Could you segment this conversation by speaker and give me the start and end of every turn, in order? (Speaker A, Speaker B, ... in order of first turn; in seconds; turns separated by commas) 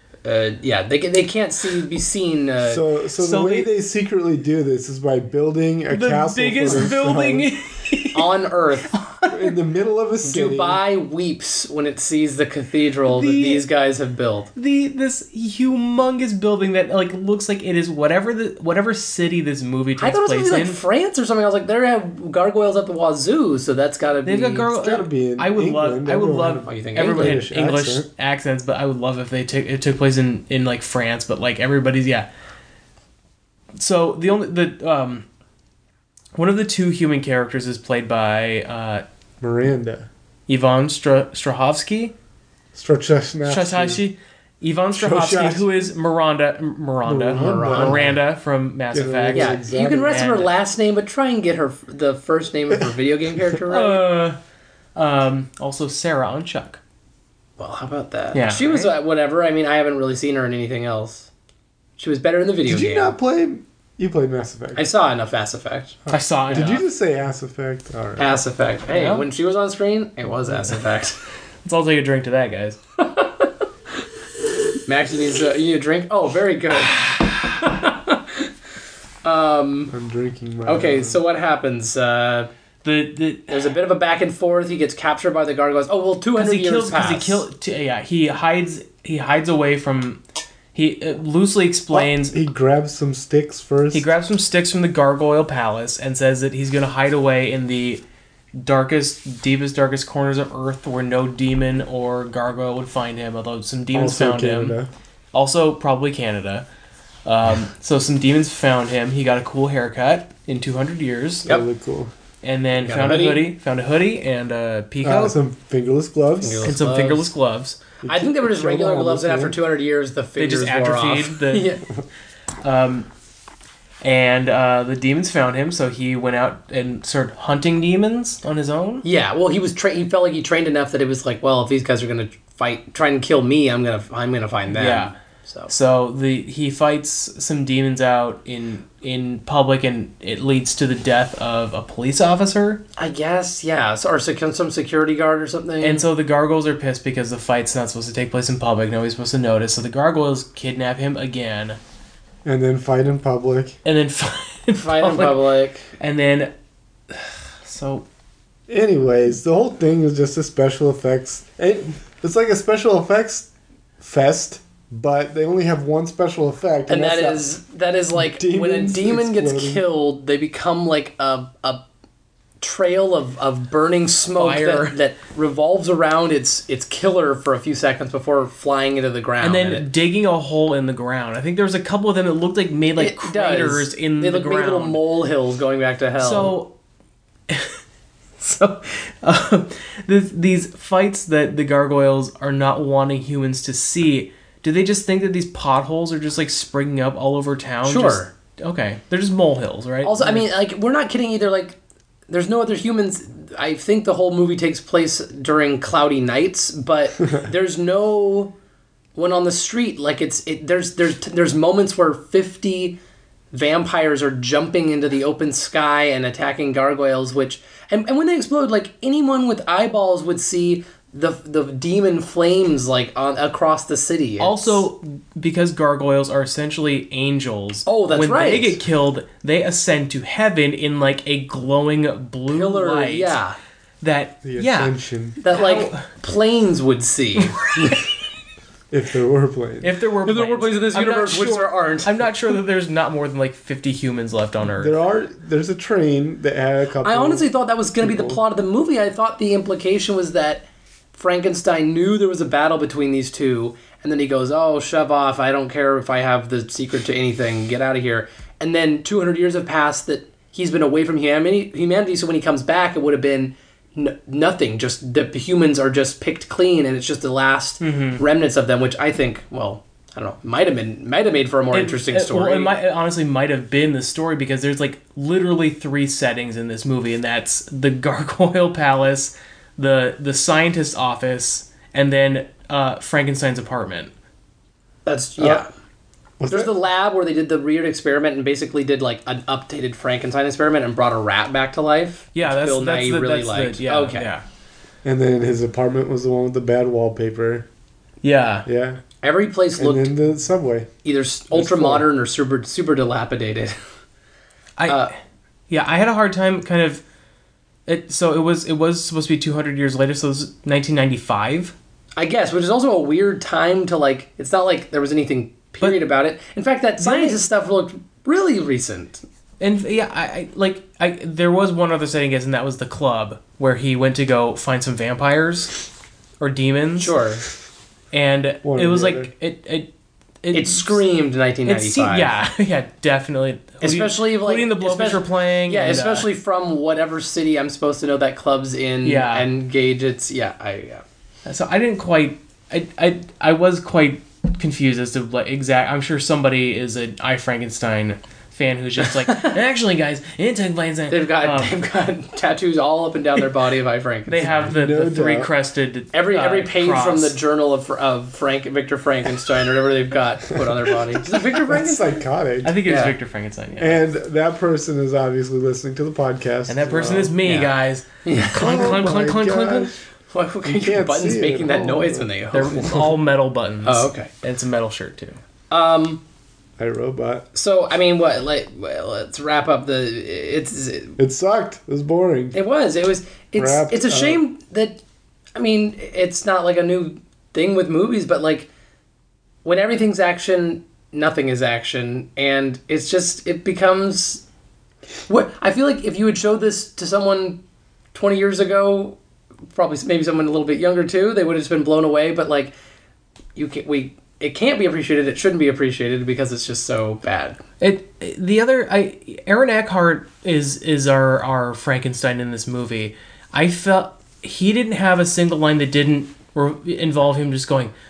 Speaker A: 0.2-2.8, Speaker B: 2.6-7.5, Speaker C: 3.2-3.7, Speaker C: 5.9-9.6, Speaker A: 8.1-8.9, Speaker B: 9.3-10.8, Speaker A: 10.2-14.5, Speaker C: 13.1-13.6, Speaker C: 14.6-20.8, Speaker A: 20.0-24.7, Speaker C: 24.2-32.3, Speaker B: 24.7-28.1, Speaker A: 26.6-27.4, Speaker C: 33.8-35.2, Speaker C: 36.4-39.0, Speaker B: 39.4-40.1, Speaker C: 40.5-42.1, Speaker B: 42.8-44.0, Speaker C: 43.4-50.5, Speaker B: 44.9-45.7, Speaker B: 47.0-48.1, Speaker A: 47.3-48.2, Speaker B: 48.9-50.2, Speaker A: 49.3-54.0, Speaker C: 53.7-54.4, Speaker C: 54.9-56.8, Speaker A: 57.6-61.3, Speaker C: 58.3-58.9, Speaker A: 62.0-63.1, Speaker B: 62.6-64.8, Speaker A: 64.8-66.7, Speaker B: 66.1-68.4, Speaker C: 66.1-66.8, Speaker A: 68.2-71.2, Speaker C: 68.9-69.2, Speaker C: 71.6-72.8, Speaker A: 73.0-73.5, Speaker A: 74.9-78.5, Speaker A: 79.2-79.9, Speaker B: 79.9-81.2, Speaker A: 80.7-82.5, Speaker C: 82.8-83.6, Speaker A: 83.5-87.4, Speaker C: 86.4-90.2, Speaker C: 90.7-92.4, Speaker B: 91.9-94.1, Speaker C: 93.9-98.0, Speaker C: 98.5-104.8, Speaker B: 103.9-104.9, Speaker C: 105.3-106.7, Speaker C: 107.2-111.5, Speaker B: 111.5-112.1, Speaker C: 112.4-115.4, Speaker A: 112.8-113.5, Speaker B: 115.0-116.7, Speaker A: 116.4-117.3, Speaker C: 116.6-117.8, Speaker B: 118.0-119.6, Speaker A: 118.0-121.8, Speaker C: 120.4-121.8, Speaker C: 122.6-123.1, Speaker C: 124.0-129.0, Speaker A: 129.0-135.7, Speaker C: 134.7-135.1, Speaker C: 135.7-142.8, Speaker A: 143.0-146.0, Speaker C: 145.8-151.8, Speaker B: 152.4-153.8, Speaker C: 153.8-155.4, Speaker A: 154.8-155.9, Speaker C: 156.0-156.5, Speaker C: 157.1-158.1, Speaker B: 158.7-163.5, Speaker B: 164.0-167.5, Speaker A: 166.9-171.8, Speaker B: 168.1-169.8, Speaker A: 172.6-179.9, Speaker C: 174.3-175.0, Speaker C: 179.4-185.0, Speaker A: 183.0-186.5, Speaker C: 186.2-186.8, Speaker C: 187.5-187.8, Speaker C: 188.4-200.4, Speaker A: 197.8-198.3, Speaker A: 200.0-201.8, Speaker A: 202.3-208.5, Speaker A: 209.2-213.0, Speaker A: 213.5-224.8, Speaker C: 224.4-233.4, Speaker A: 227.9-228.8, Speaker A: 232.5-233.6, Speaker C: 234.0-234.9, Speaker B: 234.4-235.4, Speaker A: 235.4-238.0, Speaker C: 235.5-236.1, Speaker B: 238.9-239.9, Speaker C: 239.8-245.0, Speaker A: 240.2-242.2, Speaker B: 244.8-247.5, Speaker A: 247.0-272.7, Speaker B: 248.0-248.4, Speaker C: 267.8-268.2, Speaker C: 271.7-284.1, Speaker A: 285.1-285.7, Speaker B: 285.4-285.6, Speaker B: 286.4-286.7, Speaker A: 286.5-294.3, Speaker C: 292.4-294.4, Speaker B: 295.0-297.6, Speaker C: 298.2-298.7, Speaker B: 298.6-299.0, Speaker A: 299.2-300.1, Speaker B: 299.8-300.9, Speaker A: 301.0-303.8, Speaker B: 301.5-302.1, Speaker C: 304.8-305.1, Speaker A: 304.9-305.1, Speaker C: 305.7-307.0, Speaker C: 307.9-311.7, Speaker A: 312.2-319.2, Speaker C: 317.0-317.4, Speaker C: 319.6-325.7, Speaker C: 326.4-327.1, Speaker A: 327.0-327.4, Speaker C: 328.1-329.9, Speaker B: 328.6-329.3, Speaker C: 330.4-331.0, Speaker A: 330.5-332.3, Speaker C: 331.6-336.3, Speaker A: 333.8-341.0, Speaker C: 339.0-339.5, Speaker C: 341.5-351.8, Speaker A: 351.1-354.7, Speaker C: 354.3-357.4, Speaker B: 354.4-355.5, Speaker A: 356.1-362.2, Speaker B: 361.5-362.8, Speaker C: 362.6-364.0, Speaker A: 362.9-363.1, Speaker B: 363.8-367.4, Speaker C: 366.7-369.9, Speaker A: 367.4-367.7, Speaker A: 368.2-368.9, Speaker B: 368.5-370.0, Speaker A: 370.3-373.1, Speaker B: 370.6-372.3, Speaker C: 372.5-375.4, Speaker A: 373.9-374.3, Speaker A: 375.7-376.2, Speaker B: 376.8-377.5, Speaker A: 377.5-381.2, Speaker B: 381.2-382.6, Speaker A: 382.5-385.0, Speaker B: 383.6-384.4, Speaker A: 385.5-388.7, Speaker A: 389.6-394.4, Speaker A: 395.3-397.6, Speaker A: 398.1-399.2, Speaker A: 399.7-402.7, Speaker A: 403.6-407.6, Speaker C: 407.8-417.9